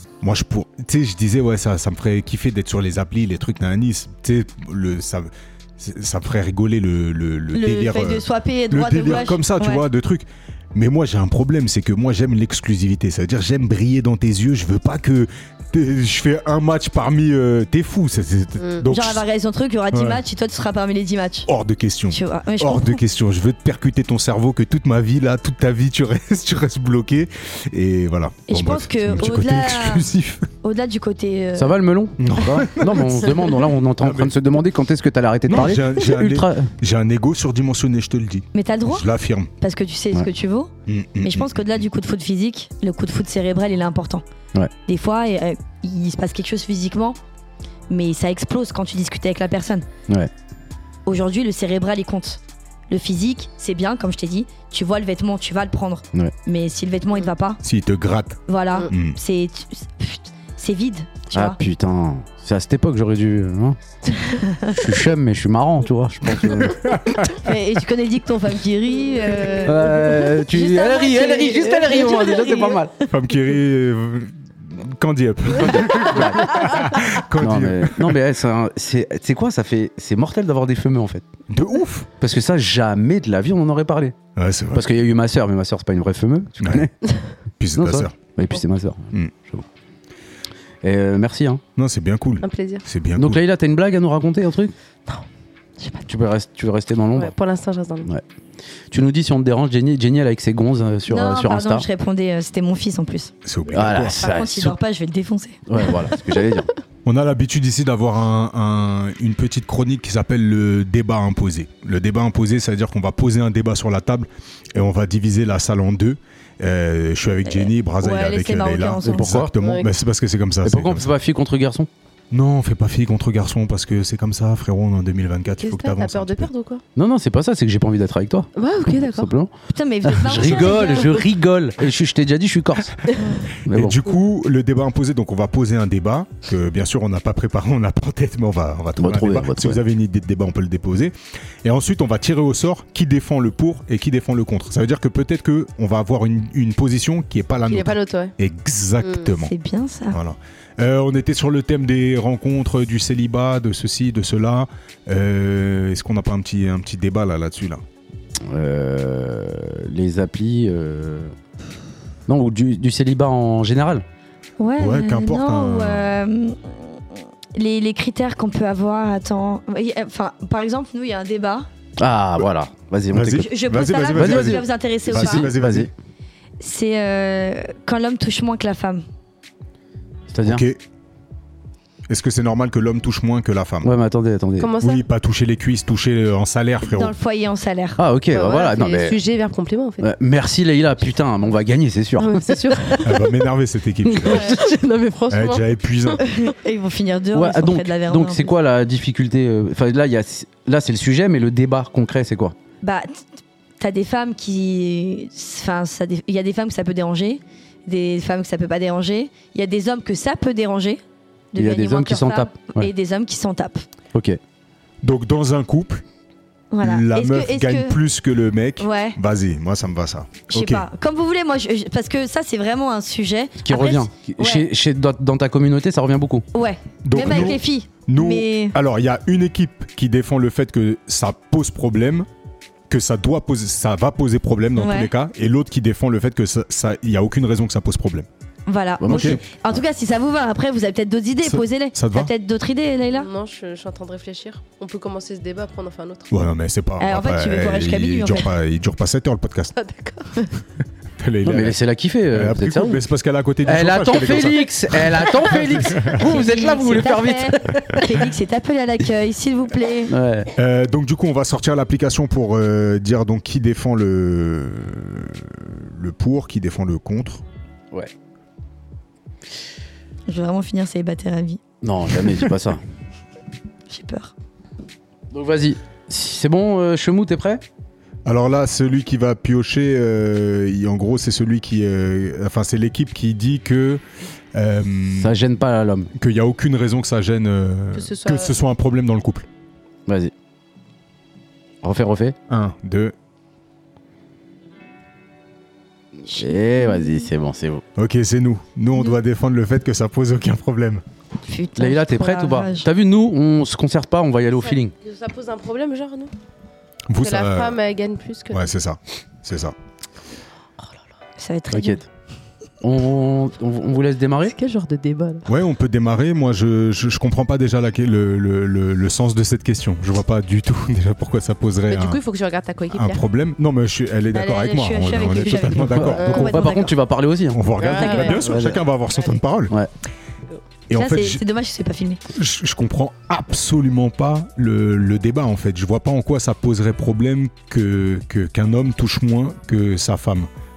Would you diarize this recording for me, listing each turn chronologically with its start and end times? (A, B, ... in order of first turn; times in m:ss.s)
0:00.2-0:19.2 A
0:07.5-0:09.8 B
0:18.6-0:18.9 C
0:18.8-0:21.5 B
0:19.9-0:20.2 A
0:21.5-0:30.5 A
0:22.1-0:23.0 B
0:28.5-0:30.1 B
0:30.6-0:31.8 B
0:31.6-0:36.7 D
0:32.2-0:33.5 A
0:34.0-0:34.4 A
0:35.5-0:39.5 A
0:38.5-0:39.1 B
0:39.6-0:40.7 B
0:40.9-0:41.8 A
0:41.2-0:44.2 B
0:44.8-0:47.2 B
0:47.9-0:49.8 B
0:51.0-0:57.6 B
0:57.6-0:59.2 A
0:58.5-1:01.6 B
1:01.3-1:03.8 D
1:04.3-1:04.8 B
1:04.6-1:07.0 D
1:06.6-1:07.2 A
1:07.3-1:13.0 B
1:09.6-1:12.9 D
1:13.1-1:18.2 A
1:15.6-1:16.7 D
1:17.4-1:21.2 D
1:21.5-1:22.1 A
1:22.2-1:24.1 D
1:24.4-1:24.9 A
1:24.7-1:26.9 D
1:26.6-1:26.9 A
1:27.6-1:28.2 A
1:27.8-1:29.6 D
1:30.8-1:31.6 D
1:31.8-1:33.4 A
1:32.4-1:32.8 C
1:33.2-1:34.7 D
1:36.1-1:37.3 D
1:37.2-1:38.1 C
1:38.9-1:41.8 D
1:41.1-1:43.3 B
1:43.4-1:44.2 A
1:43.7-1:44.8 D
1:44.2-1:45.6 B
1:45.7-1:46.7 D
1:47.0-2:01.1 A
1:57.5-1:59.3 B
1:59.0-1:59.5 D
1:59.6-1:59.9 C
2:00.6-2:01.9 D
2:02.3-2:06.5 A
2:05.6-2:06.8 C
2:07.0-2:09.5 D
2:08.6-2:09.3 C
2:09.7-2:11.2 B
2:10.0-2:14.0 D
2:10.7-2:11.0 C
2:13.1-2:13.3 C
2:13.7-2:29.5 A
2:19.0-2:19.8 D
2:27.7-2:28.3 C
2:29.4-2:30.2 B
2:30.1-2:37.8 A
2:38.4-2:41.3 D
2:42.3-2:44.0 D
2:44.6-2:51.7 B
2:44.8-2:46.1 A
2:52.0-2:53.5 D
2:53.1-2:55.9 A
2:53.3-2:55.5 B
2:54.1-2:55.9 D
2:56.6-2:59.0 B
3:00.3-3:00.6 D
3:00.4-3:00.8 A
3:02.1-3:03.9 A
3:03.8-3:04.7 D
3:04.6-3:05.0 C
3:04.8-3:07.1 A
3:06.8-3:08.0 B
3:08.0-3:09.2 D
3:08.3-3:10.1 C
3:10.0-3:13.0 D
3:12.2-3:13.3 C
3:13.0-3:14.6 A
3:14.2-3:14.6 D
3:14.2-3:16.4 C
3:15.3-3:16.2 A
3:16.2-3:18.5 B
3:17.3-3:22.5 D
3:22.8-3:23.2 B
3:23.8-3:31.0 B
3:31.5-3:33.8 B
3:31.6-3:32.9 D
3:34.1-3:34.4 D
3:35.0-3:36.0 A
3:36.7-3:38.0 B
3:36.8-3:40.8 A
3:38.8-3:39.2 B
3:40.5-3:44.6 B
3:43.6-3:46.4 D
3:46.5-3:48.8 B
3:47.0-3:52.3 A
3:52.9-3:58.3 A
3:54.8-3:55.1 B
3:58.7-4:03.3 B
3:59.0-3:59.4 D
3:59.1-3:59.4 A
4:01.4-4:02.3 A
4:03.1-4:06.4 C
4:06.3-4:09.7 A
4:07.0-4:08.5 B
4:09.8-4:10.5 C
4:11.2-4:11.8 A
4:11.4-4:13.0 D
4:12.3-4:16.2 A
4:13.6-4:18.2 D
4:16.0-4:20.1 B
4:20.1-4:20.5 D
4:20.6-4:27.4 A
4:30.3-4:31.6 B
4:31.8-4:32.8 D
4:33.9-4:34.3 B
4:35.3-4:37.6 D
4:38.2-4:44.0 A
4:44.5-4:45.3 A
4:45.2-4:46.1 D
4:46.1-4:49.5 A
4:47.9-4:48.6 C
4:50.1-4:50.3 D
4:51.8-4:52.4 D
4:52.5-4:53.1 A
4:56.3-4:57.3 B
4:56.3-4:57.8 D
4:57.9-5:01.0 A
5:01.4-5:02.9 B
5:01.8-5:04.9 D
5:04.6-5:06.3 C
5:07.1-5:07.8 A
5:07.2-5:08.7 C
5:08.5-5:09.7 A
5:11.4-5:12.0 B
5:11.7-5:12.0 D
5:12.8-5:14.6 D
5:14.4-5:15.4 C
5:15.4-5:22.2 A
5:21.9-5:23.2 C
5:22.9-5:26.6 A
5:24.3-5:27.0 B
5:25.8-5:27.6 D
5:26.2-5:26.6 C
5:27.5-5:29.7 A
5:27.8-5:28.5 C
5:27.8-5:28.4 B
5:28.3-5:28.8 D
5:30.9-5:31.4 A
5:30.9-5:32.2 B
5:32.3-5:40.5 A